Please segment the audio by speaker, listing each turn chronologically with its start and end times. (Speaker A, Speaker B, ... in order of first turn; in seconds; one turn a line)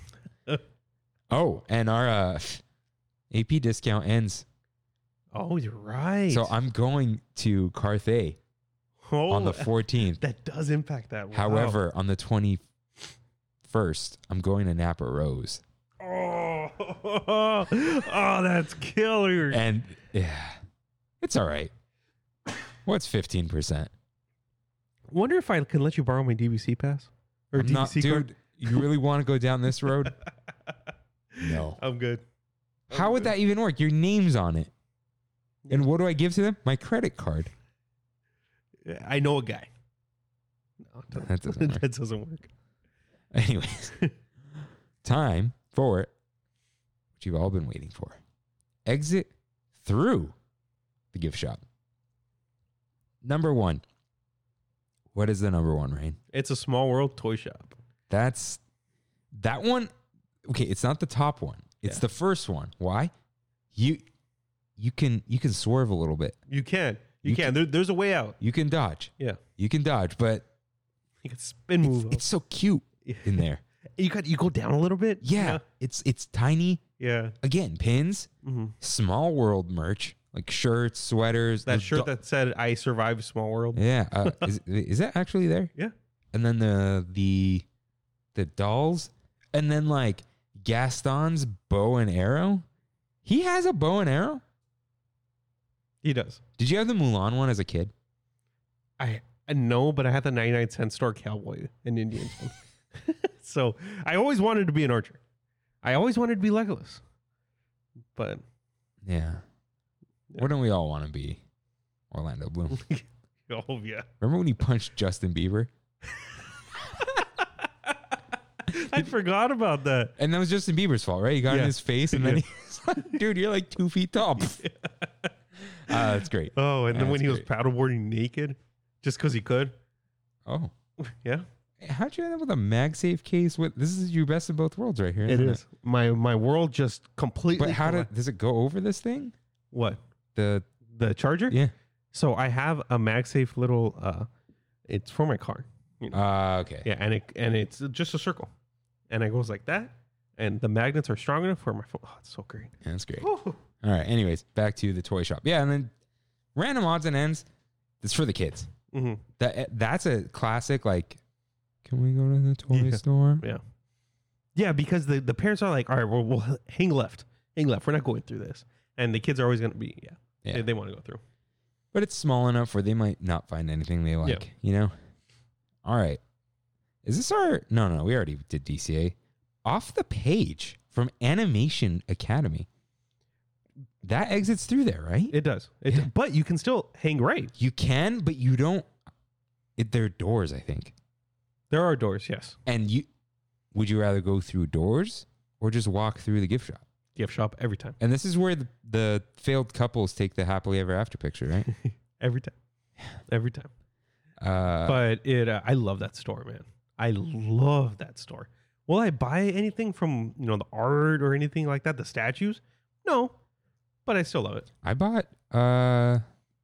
Speaker A: 1.3-2.6
Speaker A: 3.3-4.4
Speaker B: 5.3-6.5
Speaker A: 6.3-8.4
Speaker B: 9.1-11.8
Speaker A: 9.3-10.2
Speaker A: 11.3-12.6
Speaker A: 13.6-15.6
Speaker B: 16.0-19.6
Speaker A: 19.5-20.6
Speaker A: 21.2-21.7
Speaker A: 22.8-23.9
Speaker B: 25.1-28.9
Speaker A: 27.5-30.1
Speaker B: 31.3-32.2
Speaker A: 31.4-31.8
Speaker B: 32.9-33.3
Speaker A: 32.9-34.7
Speaker A: 35.7-37.5
Speaker B: 38.8-39.7
Speaker B: 40.9-42.5
Speaker A: 41.1-41.8
Speaker A: 43.3-43.9
Speaker A: 45.0-46.1
Speaker A: 47.2-48.2
Speaker A: 48.9-50.3
Speaker A: 51.1-51.6
Speaker A: 53.2-53.8
Speaker A: 55.1-56.2
Speaker B: 56.3-57.8
Speaker A: 58.1-58.6
Speaker A: 59.3-59.9
Speaker A: 60.5-63.1
Speaker A: 63.7-64.0
Speaker A: 64.8-66.4
Speaker B: 66.5-68.4
Speaker A: 67.2-67.5
Speaker A: 68.4-70.4
Speaker B: 71.2-72.2
Speaker A: 71.8-73.6
Speaker B: 73.0-73.4
Speaker B: 74.0-75.6
Speaker A: 75.2-76.8
Speaker B: 77.0-77.3
Speaker A: 77.4-78.3
Speaker B: 78.4-78.7
Speaker A: 78.8-82.1
Speaker B: 81.7-84.5
Speaker A: 83.7-85.7
Speaker A: 86.3-87.6
Speaker A: 88.3-92.6
Speaker A: 93.2-94.4
Speaker B: 96.0-96.4
Speaker A: 96.6-97.9
Speaker B: 99.0-105.2
Speaker B: 105.8-107.0
Speaker B: 108.1-108.4
Speaker A: 109.0-109.4
Speaker A: 110.4-111.4
Speaker A: 112.1-112.8
Speaker B: 112.7-114.1
Speaker A: 114.2-115.7
Speaker B: 116.9-117.9
Speaker B: 118.7-120.1
Speaker A: 120.2-124.6
Speaker B: 121.5-122.4
Speaker B: 124.4-125.3
Speaker A: 125.9-127.5
Speaker B: 125.9-129.7
Speaker A: 130.4-130.7
Speaker B: 131.1-131.4
Speaker A: 131.8-135.6
Speaker B: 135.3-138.1
Speaker A: 137.5-139.3
Speaker B: 139.7-140.0
Speaker A: 140.3-140.7
Speaker B: 140.9-141.6
Speaker B: 142.1-144.3
Speaker B: 144.9-146.2
Speaker A: 146.1-146.9
Speaker B: 146.8-148.5
Speaker B: 149.1-153.6
Speaker A: 152.8-153.3
Speaker A: 153.8-155.9
Speaker A: 156.5-157.4
Speaker A: 158.0-158.7
Speaker B: 158.9-159.2
Speaker A: 159.4-161.2
Speaker A: 161.8-163.4
Speaker B: 162.7-163.6
Speaker B: 164.5-171.2
Speaker A: 171.9-174.9
Speaker A: 175.8-176.2
Speaker A: 177.0-182.7
Speaker A: 184.0-185.3
Speaker B: 185.3-187.5
Speaker A: 187.5-188.9
Speaker A: 189.8-190.9
Speaker B: 191.7-192.6
Speaker A: 192.7-193.1
Speaker A: 193.7-196.8
Speaker B: 197.2-198.0
Speaker A: 198.0-201.7
Speaker B: 201.7-202.5
Speaker B: 203.3-203.7
Speaker A: 204.4-205.0
Speaker B: 204.8-213.3
Speaker B: 214.1-214.7
Speaker A: 214.8-216.2